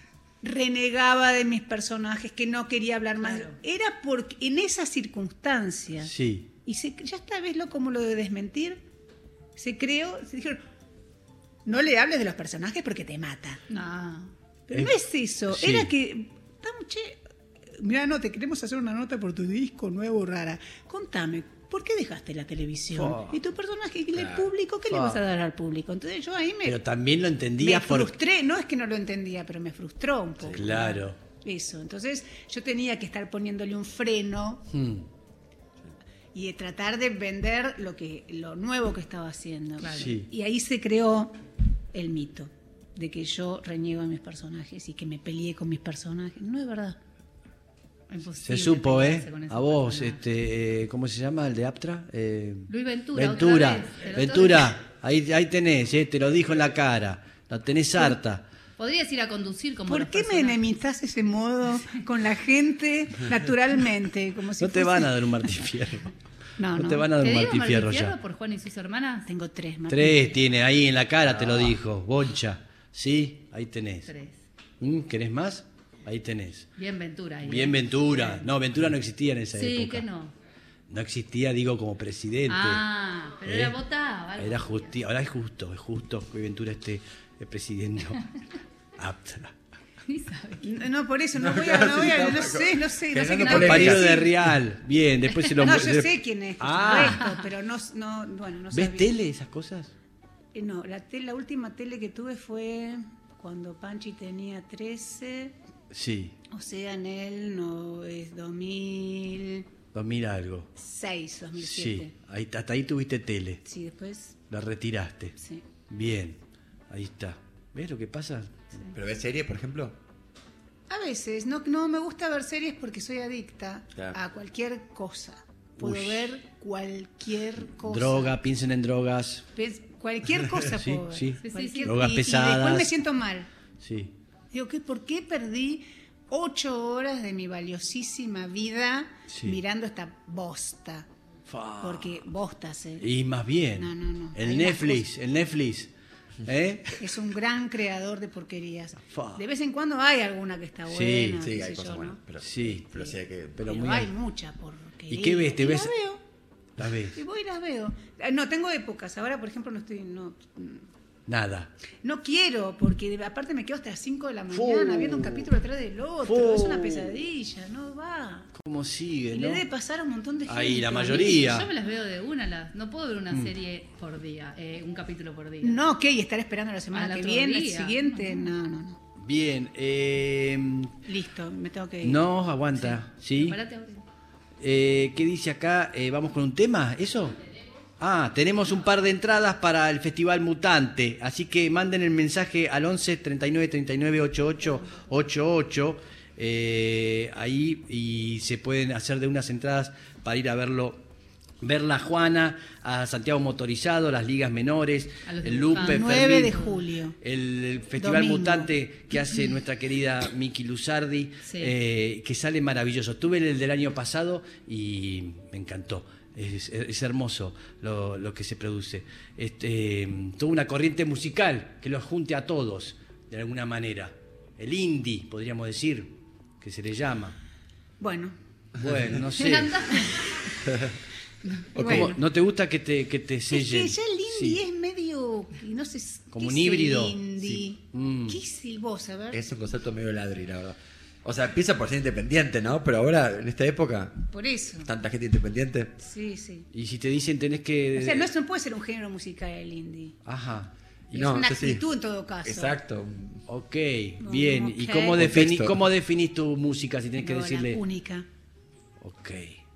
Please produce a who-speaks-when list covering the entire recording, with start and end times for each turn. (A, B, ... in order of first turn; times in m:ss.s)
0:00.4-0:06.1 A
0:03.2-0:03.5 B
0:06.0-0:06.5 C
0:06.6-0:08.8 A
0:09.6-0:10.6 A
0:11.6-0:13.6 A
0:13.7-0:14.3 B
0:14.7-0:17.2 A
0:15.5-0:15.9 C
0:17.7-0:26.8 A
0:22.9-0:23.4 C
0:24.1-0:24.5 D
0:24.9-0:25.2 C
0:26.6-0:28.1 C
0:27.6-0:34.6 A
0:30.4-0:31.2 C
0:34.7-0:35.1 C
0:36.3-0:41.4 A
0:39.8-0:40.1 B
0:39.9-0:40.3 C
0:41.9-0:47.0 A
0:48.1-0:50.2 B
0:48.4-0:58.4 C
0:52.7-0:54.8 B
0:58.8-1:00.6 B
0:59.9-1:05.5 A
1:04.6-1:06.1 C
1:06.6-1:07.1 A
1:06.7-1:08.2 C
1:07.2-1:09.3 B
1:09.3-1:10.4 A
1:09.9-1:14.1 C
1:14.1-1:14.4 B
1:14.8-1:16.7 C
1:16.8-1:18.4 B
1:17.4-1:20.0 C
1:19.5-1:20.3 B
1:20.9-1:22.8 C
1:22.5-1:25.0 B
1:23.4-1:23.7 C
1:24.4-1:28.3 C
1:29.0-1:29.6 C
1:30.0-1:30.8 B
1:30.6-1:34.3 A
1:31.4-1:34.3 D
1:33.4-1:34.1 B
1:33.5-1:37.3 C
1:35.5-1:39.1 A
1:36.8-1:37.4 B
1:38.7-1:39.9 C
1:40.5-1:45.6 A
1:45.9-1:46.4 C
1:46.5-1:49.7 A
1:49.9-1:50.7 C
1:50.8-1:52.1 A
1:51.6-1:53.6 C
1:53.6-1:54.4 A
1:54.5-1:55.4 C
1:55.4-1:55.6 A
1:55.9-1:58.8 C
1:58.9-2:00.0 D
2:00.9-2:08.4 A
2:05.8-2:06.3 C
2:07.7-2:09.5 C
2:09.6-2:13.5 A
2:10.8-2:12.9 C
2:11.4-2:12.0 B
2:13.8-2:14.1 C
2:14.5-2:21.1 A
2:19.3-2:19.6 C
2:21.5-2:22.2 C
2:21.8-2:23.1 A
2:23.0-2:25.9 C
2:23.8-2:25.0 A
2:26.4-2:27.0 C
2:27.0-2:32.2 A
2:29.1-2:29.4 C
2:30.9-2:31.5 C
2:31.4-2:33.7 D
2:32.4-2:32.9 C
2:32.8-2:36.2 A
2:33.6-2:34.1 C
2:35.1-2:35.9 C
2:36.8-2:37.2 C
2:37.2-2:40.8 A
2:41.3-2:41.7 C
2:42.0-2:48.5 A
2:44.5-2:45.5 C
2:46.2-2:47.2 C
2:48.5-2:49.7 C
2:49.3-2:51.6 A
2:50.5-2:51.7 C
2:51.1-2:55.8 B
2:55.6-2:59.0 A
2:56.9-2:58.5 B
2:59.2-3:01.0 C
3:01.0-3:02.3 A
3:02.0-3:03.6 C
3:03.3-3:04.0 B
3:04.6-3:07.4 C
3:08.0-3:21.0 C
3:21.6-3:47.4 C
3:25.3-3:26.7 B
3:25.8-3:27.2 A
3:28.0-3:28.7 A
3:31.5-3:31.7 B
3:48.0-3:48.4 A
3:48.8-3:50.0 C
3:49.3-3:50.6 B
3:50.0-3:50.4 A
3:50.7-3:50.9 D
3:51.7-3:52.1 D
3:51.8-3:52.2 A
3:51.8-3:54.6 C
3:53.5-3:59.4 A
3:56.3-3:58.4 C
3:59.3-4:04.3 D
4:04.3-4:04.9 A
4:04.8-4:06.0 D
4:06.0-4:06.7 A
4:06.7-4:08.3 C
4:08.0-4:10.2 A
4:10.2-4:11.3 C
4:11.1-4:11.9 D
4:11.2-4:12.8 A
4:12.4-4:13.4 D
4:13.5-4:17.8 C
4:14.2-4:15.4 A
4:15.2-4:15.8 D
4:17.2-4:18.3 A
4:19.0-4:19.6 C